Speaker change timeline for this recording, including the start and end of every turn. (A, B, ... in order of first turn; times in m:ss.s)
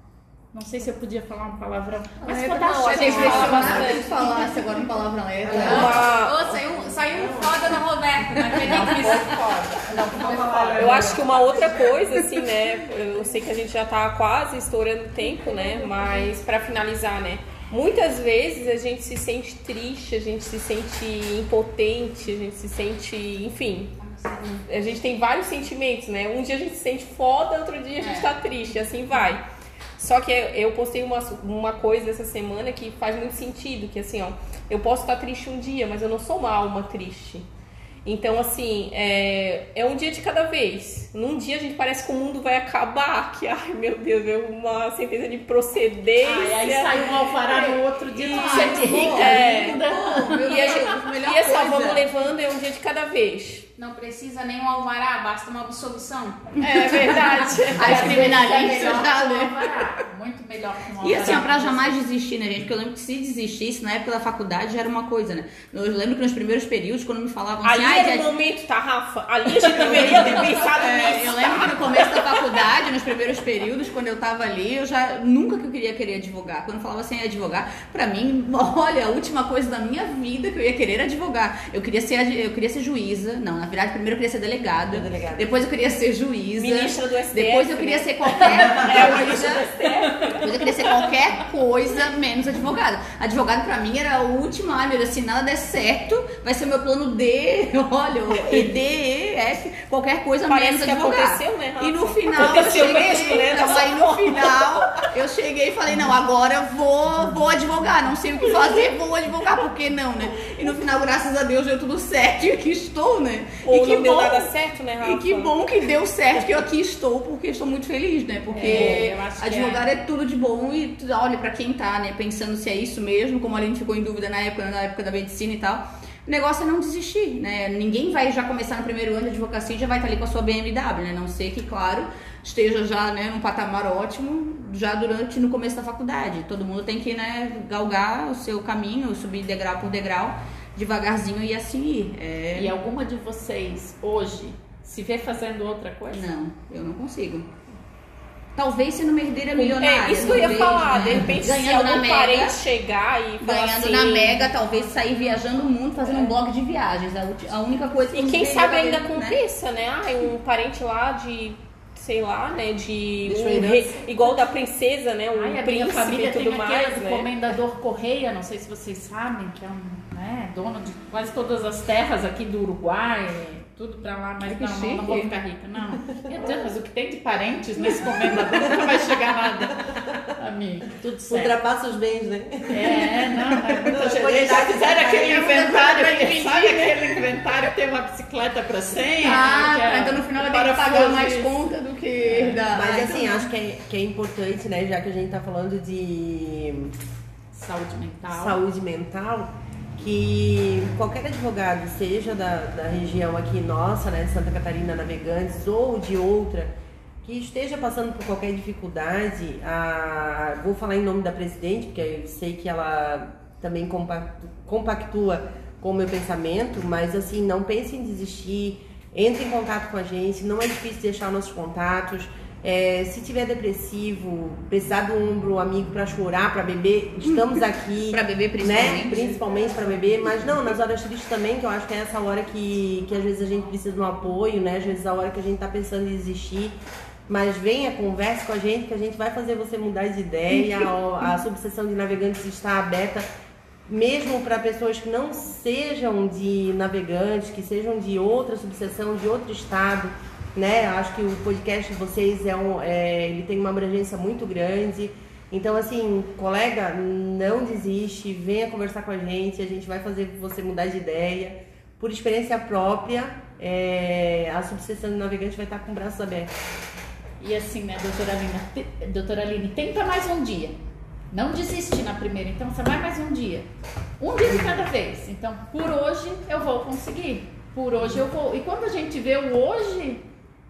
0:00.5-0:04.1 A
0:02.2-0:06.1 B
0:02.3-0:04.3 C
0:03.9-0:04.3 D
0:05.5-0:09.4 D
0:05.5-0:05.8 E
0:05.5-0:06.6 C
0:05.5-0:05.8 A
0:08.5-0:11.2 A
0:08.6-0:09.8 C
0:08.6-0:09.1 B
0:10.0-0:11.6 B
0:10.0-0:11.2 D
0:10.8-0:24.0 C
0:24.0-0:24.6 D
0:24.6-0:29.4 C
0:30.0-0:37.4 C
0:38.0-0:53.7 C
0:46.2-0:50.5 A
0:48.2-0:52.0 B
0:48.2-0:49.3 D
0:50.5-0:51.0 D
0:53.8-0:57.1 D
0:56.6-0:58.9 C
0:57.6-0:59.6 B
0:57.6-1:02.0 A
0:58.0-0:58.3 D
1:01.0-1:08.3 B
1:07.6-1:12.6 C
1:09.5-1:29.7 B
1:10.1-1:10.4 A
1:24.9-1:25.5 E
1:26.5-1:31.1 C
1:30.3-2:22.7 B
1:40.5-1:45.1 C
1:42.4-1:43.7 D
1:53.6-1:55.5 C
1:58.5-1:59.8 A
1:58.7-1:59.0 C
2:22.5-2:26.3 A
2:26.1-2:27.5 B
2:28.6-2:32.6 B
2:29.5-2:34.5 C
2:33.4-2:39.4 B
2:36.1-2:36.3 C
2:38.1-2:47.3 C
2:43.2-2:44.0 E
2:45.3-3:01.5 A
2:54.5-2:55.3 C
3:01.3-3:05.9 E
3:02.7-3:11.6 A
3:05.0-3:06.9 B
3:09.2-3:13.5 B
3:12.2-3:12.6 A
3:12.7-3:16.9 E
3:17.5-3:18.6 A
3:18.3-3:56.8 E
3:48.1-3:49.2 B
3:57.3-4:03.2 E
4:03.9-4:26.5 E
4:27.4-4:30.8 A
4:31.3-4:33.7 A
4:34.2-4:40.2 A
4:34.5-4:34.8 E